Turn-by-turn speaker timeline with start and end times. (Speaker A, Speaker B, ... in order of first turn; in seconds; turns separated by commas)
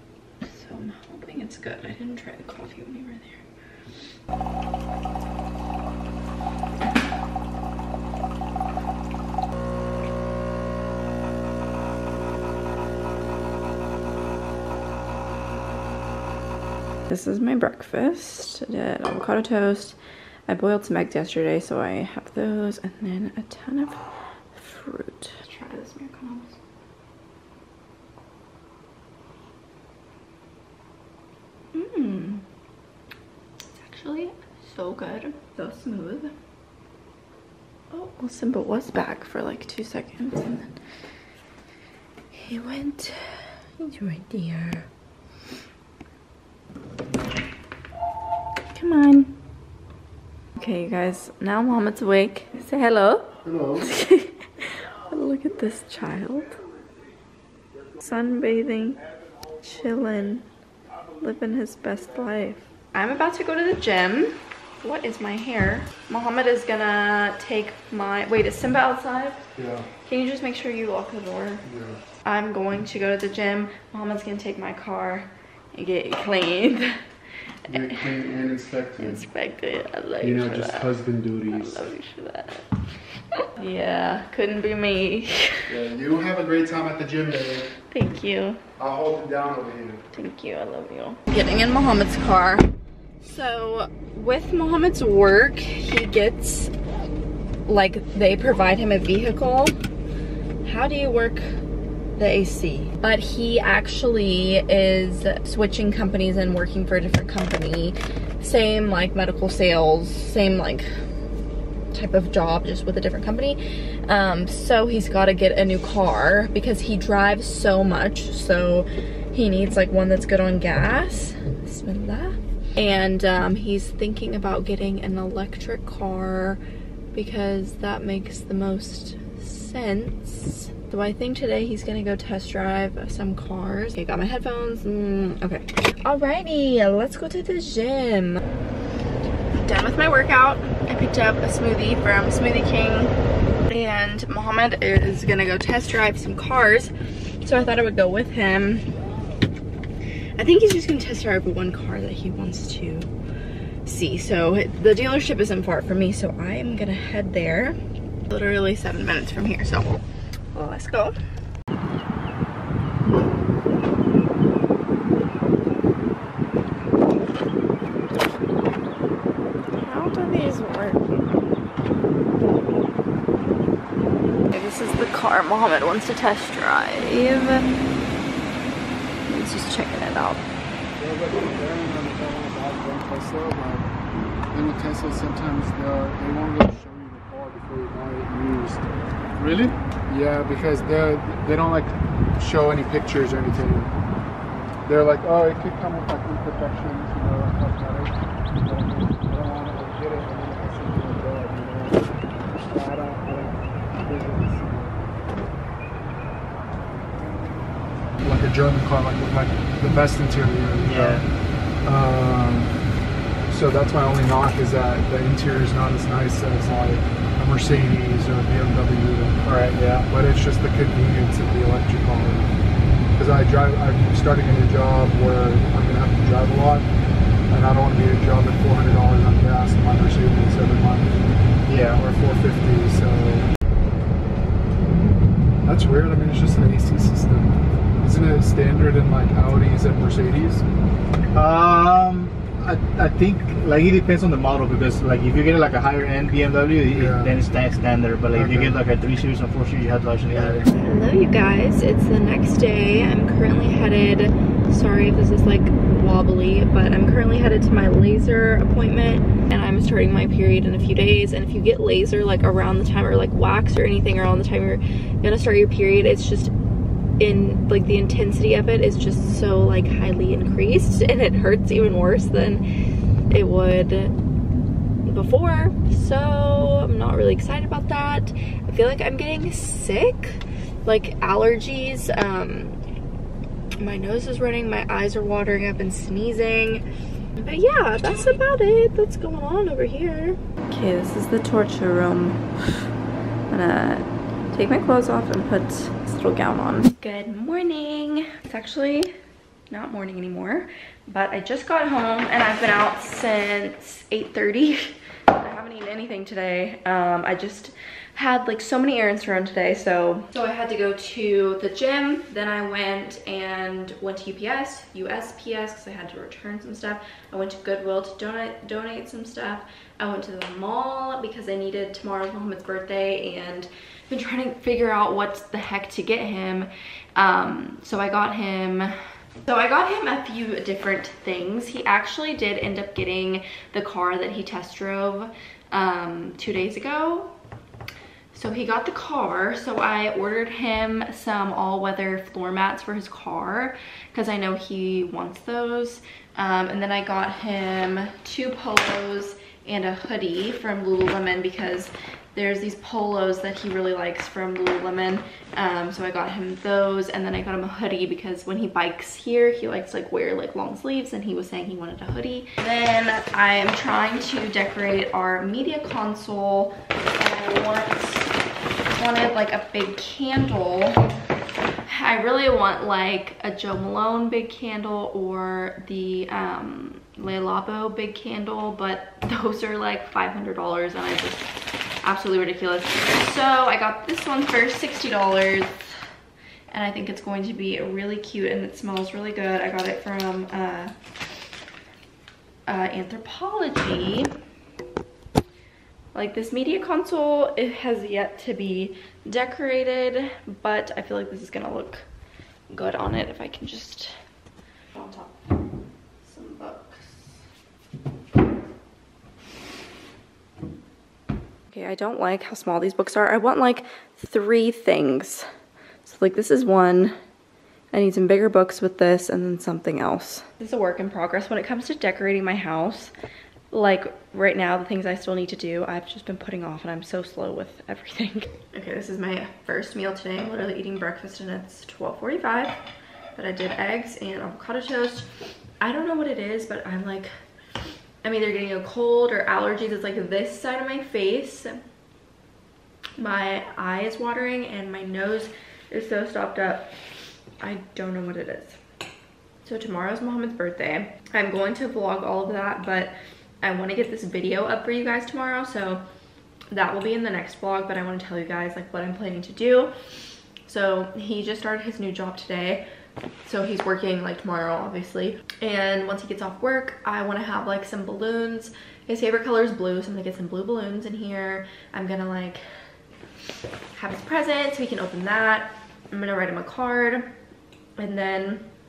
Speaker A: 0.4-3.4, Speaker A: 17.1-20.0, Speaker A: 20.5-26.6, Speaker A: 31.7-32.5, Speaker A: 33.7-36.4, Speaker A: 37.9-40.7, Speaker A: 42.3-44.9, Speaker A: 48.7-49.4, Speaker A: 50.6-56.6, Speaker B: 53.4-53.9, Speaker A: 58.0-59.0, Speaker A: 59.6-60.5, Speaker A: 61.2-69.4, Speaker B: 69.6-69.9, Speaker A: 70.0-71.6, Speaker B: 71.7-72.0, Speaker A: 72.2-77.0, Speaker A: 77.7-78.0, Speaker B: 77.7-79.2, Speaker A: 79.0-82.7, Speaker B: 80.2-81.9, Speaker A: 83.4-85.7, Speaker B: 85.7-87.7, Speaker A: 87.9-88.6, Speaker B: 88.8-90.0, Speaker A: 90.1-92.7, Speaker A: 93.2-96.7, Speaker A: 97.7-99.8, Speaker A: 100.6-101.6, Speaker A: 102.2-110.9, Speaker A: 111.9-126.6, Speaker A: 127.1-138.4, Speaker A: 139.6-143.1, Speaker A: 143.7-146.9, Speaker A: 147.4-148.9, Speaker A: 150.4-153.1, Speaker A: 153.8-160.0, Speaker A: 160.5-161.2, Speaker A: 169.7-171.3, Speaker A: 174.5-177.7, Speaker A: 179.3-180.4, Speaker B: 181.0-183.9, Speaker B: 184.5-188.9, Speaker B: 189.4-193.9, Speaker B: 194.8-202.1, Speaker B: 202.7-205.0, Speaker B: 208.2-211.2, Speaker C: 210.8-211.2, Speaker B: 211.8-212.8, Speaker B: 213.5-219.4, Speaker C: 219.4-220.1, Speaker B: 220.0-222.5, Speaker B: 223.2-226.9, Speaker B: 227.5-233.5, Speaker B: 235.6-240.7, Speaker C: 241.3-250.8, Speaker B: 246.9-247.4, Speaker B: 248.3-248.8, Speaker B: 250.3-250.7, Speaker A: 250.7-266.5, Speaker A: 267.2-272.6, Speaker A: 273.3-274.1, Speaker A: 275.1-282.8, Speaker A: 283.8-286.9, Speaker A: 287.4-292.5, Speaker A: 293.5-299.1, Speaker A: 299.7-337.4, Speaker A: 338.3-368.3, Speaker A: 368.9-371.1, Speaker A: 371.9-381.5, Speaker A: 382.0-385.9, Speaker A: 386.7-390.9, Speaker A: 392.7-394.3, Speaker A: 396.1-402.1, Speaker A: 402.7-404.1, Speaker A: 404.9-405.4, Speaker A: 406.2-407.3, Speaker A: 411.7-415.5, Speaker A: 416.0-417.1, Speaker A: 417.9-423.1, Speaker A: 423.7-432.8, Speaker A: 433.4-435.3, Speaker A: 435.8-437.3, Speaker A: 438.2-441.8, Speaker A: 443.2-446.9, Speaker A: 447.6-448.8, Speaker A: 449.6-456.0, Speaker A: 456.7-459.9, Speaker A: 460.7-462.9, Speaker A: 463.4-472.6, Speaker A: 473.9-477.3, Speaker A: 478.0-478.7